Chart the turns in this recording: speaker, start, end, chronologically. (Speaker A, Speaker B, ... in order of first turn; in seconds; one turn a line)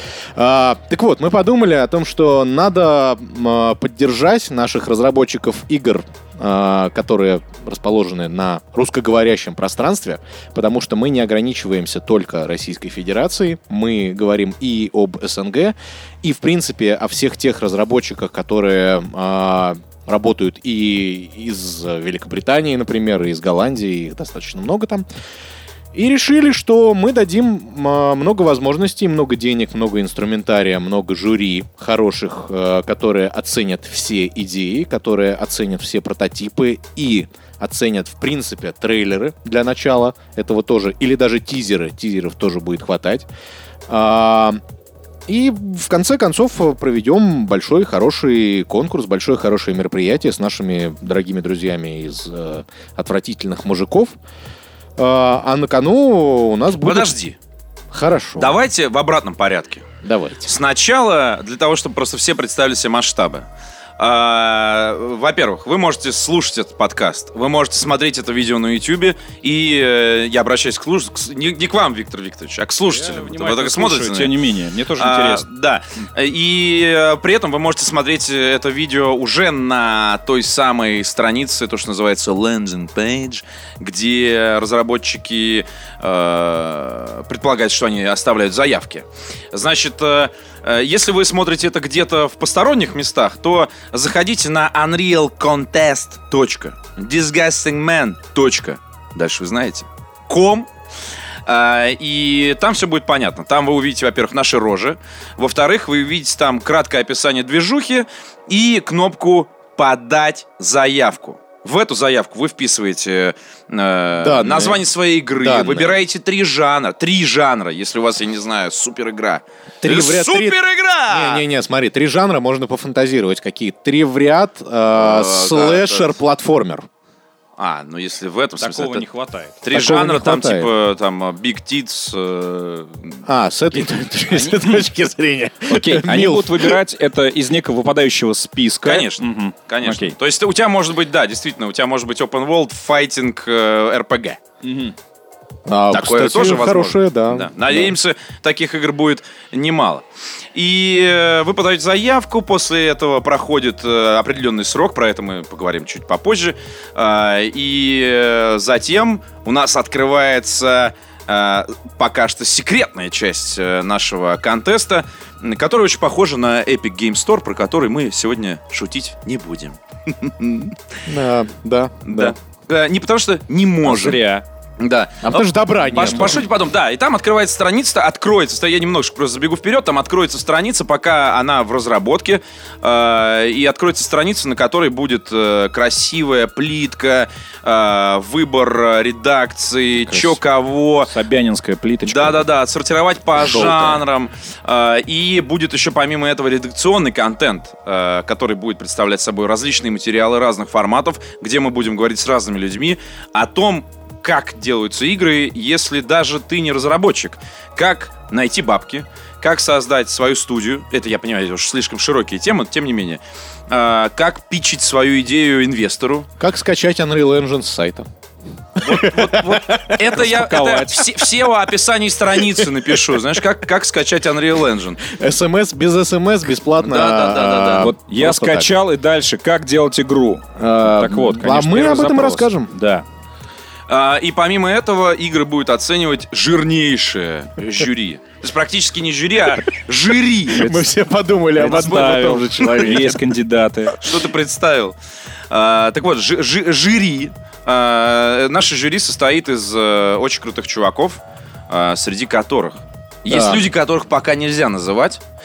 Speaker A: 0.4-25.1
Speaker A: 25.9-43.3
Speaker A: 43.9-44.6
Speaker A: 45.3-54.2
Speaker A: 55.0-57.1
Speaker B: 56.8-57.4
Speaker A: 57.9-58.5
Speaker B: 58.4-59.9
Speaker A: 60.0-60.5
Speaker B: 60.5-63.5
Speaker B: 64.0-74.3
Speaker C: 72.9-75.5
Speaker B: 75.0-100.7
Speaker B: 101.5-121.4
Speaker A: 114.2-114.8
Speaker A: 115.4-116.0
Speaker A: 119.8-120.6
Speaker A: 121.1-126.9
Speaker B: 125.0-126.1
Speaker B: 127.6-129.1
Speaker C: 128.6-129.6
Speaker B: 129.6-133.2
Speaker A: 129.7-130.7
Speaker A: 133.2-136.8
Speaker C: 134.3-134.9
Speaker C: 135.7-140.2
Speaker B: 138.8-144.4
Speaker C: 144.6-144.9
Speaker A: 145.7-148.0
Speaker B: 145.9-170.8
Speaker A: 171.1-172.3
Speaker B: 172.1-174.2
Speaker C: 173.8-174.4
Speaker B: 174.8-191.1
Speaker A: 175.2-176.4
Speaker C: 191.1-192.5
Speaker B: 192.1-216.3
Speaker A: 193.6-194.0
Speaker A: 216.4-218.1
Speaker A: 218.8-220.0
Speaker B: 218.8-225.0
Speaker C: 220.1-221.1
Speaker A: 222.5-223.2
Speaker A: 225.0-228.7
Speaker B: 226.8-227.9
Speaker C: 227.8-233.1
Speaker A: 230.6-232.7
Speaker B: 233.9-240.7
Speaker A: 240.5-243.2
Speaker C: 241.6-244.0
Speaker B: 244.0-244.9
Speaker B: 245.5-255.2
Speaker A: 253.3-253.7